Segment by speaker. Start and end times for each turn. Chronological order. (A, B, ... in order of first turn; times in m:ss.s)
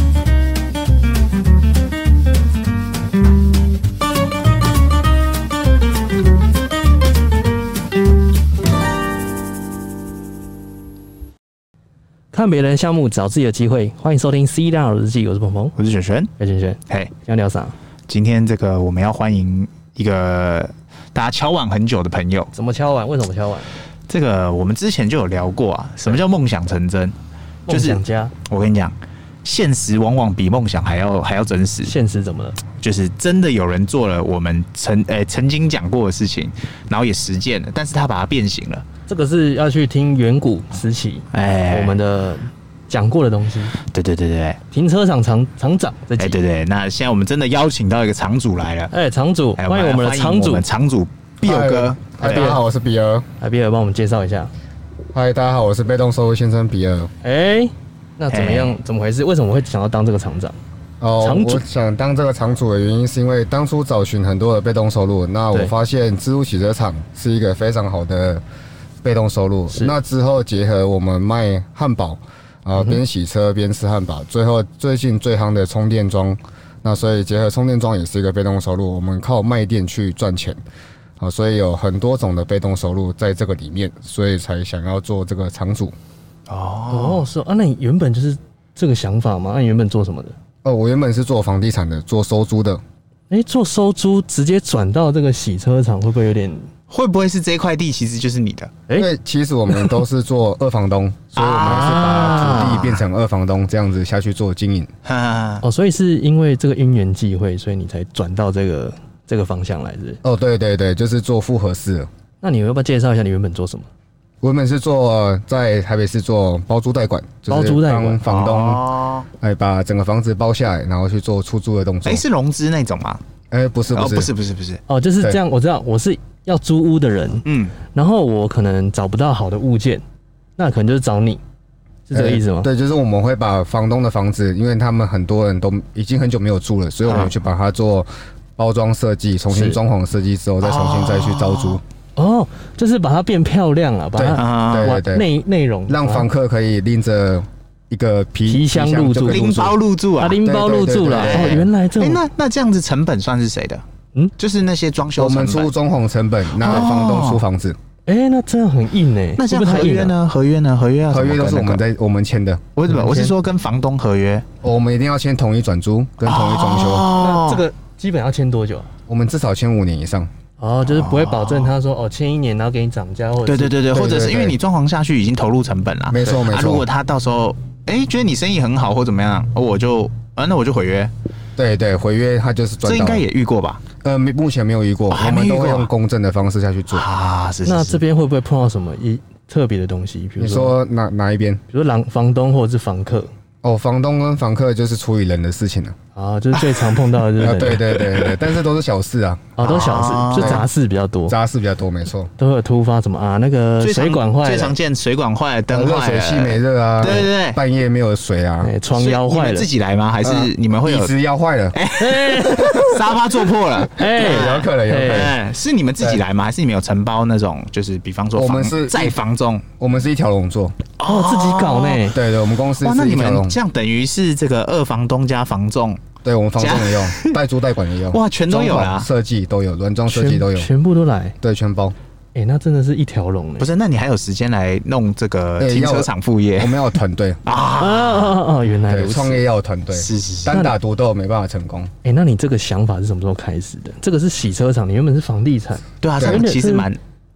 0:12.3-0:15.8 A
0:15.8-0:16.3 B
0:16.4-0:17.8 A
0:18.1-0:22.5 B
0:22.5-0:23.8 A
0:24.1-0:27.2 B
0:27.7-0:28.3 A
0:27.7-0:31.9 B
0:31.8-0:32.6 A
0:32.7-0:38.8 B
0:39.1-0:43.8 A
0:41.3-0:42.0 B
0:43.8-0:44.6 B
0:44.7-0:46.4 A
0:46.2-0:48.9 B
0:48.9-0:50.6 A
0:49.6-0:52.5 B
0:51.4-0:53.3 C
0:52.2-0:52.6 A
0:53.4-0:54.5 A
0:55.1-0:57.1 C
0:57.2-1:00.6 A
0:58.3-0:58.8 B
1:01.0-1:08.4 C
1:01.2-1:01.6 A
1:09.0-1:20.6 C
1:21.2-1:26.0 C
1:26.5-1:27.2 B
1:26.9-1:30.4 A
1:30.6-1:32.8 C
1:33.3-1:36.7 A
1:36.9-1:38.7 B
1:39.0-1:44.9 C
1:41.4-1:43.0 B
1:41.6-1:42.8 A
1:45.0-1:45.6 B
1:45.6-1:50.2 A
1:50.2-1:52.1 C
1:52.4-1:53.9 A
1:54.4-1:58.8 C
1:57.5-1:58.2 A
1:58.2-1:59.3 B
1:59.4-2:02.2 C
2:02.0-2:03.2 B
2:03.5-2:04.3 C
2:03.9-2:04.8 B
2:04.9-2:10.0 A
2:07.5-2:07.7 B
2:10.6-2:11.4 A
2:12.1-2:12.7 A
2:12.1-2:21.8 C
2:17.1-2:17.3 B
2:19.5-2:19.8 A
2:20.6-2:21.8 B
2:22.2-2:26.3 A
2:24.2-2:25.3 C
2:24.3-2:25.0 B
2:25.9-2:29.8 C
2:28.5-2:29.5 A
2:29.3-2:30.4 B
2:30.2-2:32.2 A
2:30.4-2:31.7 C
2:31.1-2:33.8 B
2:34.4-2:35.7 B
2:35.2-2:37.8 C
2:36.6-2:37.4 B
2:38.1-2:40.2 A
2:39.4-2:41.8 B
2:41.1-2:42.7 C
2:42.8-2:44.5 B
2:42.9-2:43.3 A
2:44.6-2:47.1 C
2:46.2-2:47.6 B
2:47.1-2:48.9 A
2:49.1-2:50.3 C
2:50.6-2:53.8 A
2:50.9-2:51.7 B
2:53.4-3:01.1 B
2:53.9-2:54.6 C
2:56.1-2:56.9 C
3:01.6-3:03.2 C
3:02.8-3:03.8 B
3:04.0-3:07.0 C
3:05.1-3:05.9 B
3:06.9-3:08.0 B
3:07.7-3:10.8 A
3:10.4-3:11.6 C
3:11.7-3:13.3 A
3:13.6-3:16.0 C
3:16.2-3:17.9 A
3:17.4-3:19.6 C
3:18.0-3:18.3 B
3:19.6-3:21.4 A
3:19.6-3:20.7 B
3:20.3-3:20.7 C
3:21.3-3:22.3 C
3:22.4-3:24.7 A
3:23.8-3:27.6 B
3:25.7-3:28.7 C
3:27.0-3:27.3 A
3:28.6-3:29.7 A
3:29.0-3:31.1 B
3:30.2-3:31.8 C
3:31.7-3:39.6 B
3:32.0-3:33.2 A
3:32.5-3:33.2 C
3:33.9-3:35.3 A
3:34.0-3:35.4 C
3:38.4-3:39.2 C
3:39.8-3:40.8 C
3:41.0-3:42.1 B
3:41.0-3:42.2 A
3:42.1-3:43.6 C
3:42.8-3:46.0 B
3:46.2-3:50.7 C
3:46.6-3:47.4 B
3:48.1-3:49.1 B
3:50.1-3:51.4 A
3:51.4-3:52.0 C
3:52.4-3:53.7 A
3:53.6-3:56.9 B
3:55.6-3:57.4 C
3:57.4-3:58.4 B
3:57.8-3:59.4 A
3:58.9-4:01.9 C
3:59.9-4:00.6 B
4:02.0-4:06.9 A
4:06.0-4:07.0 B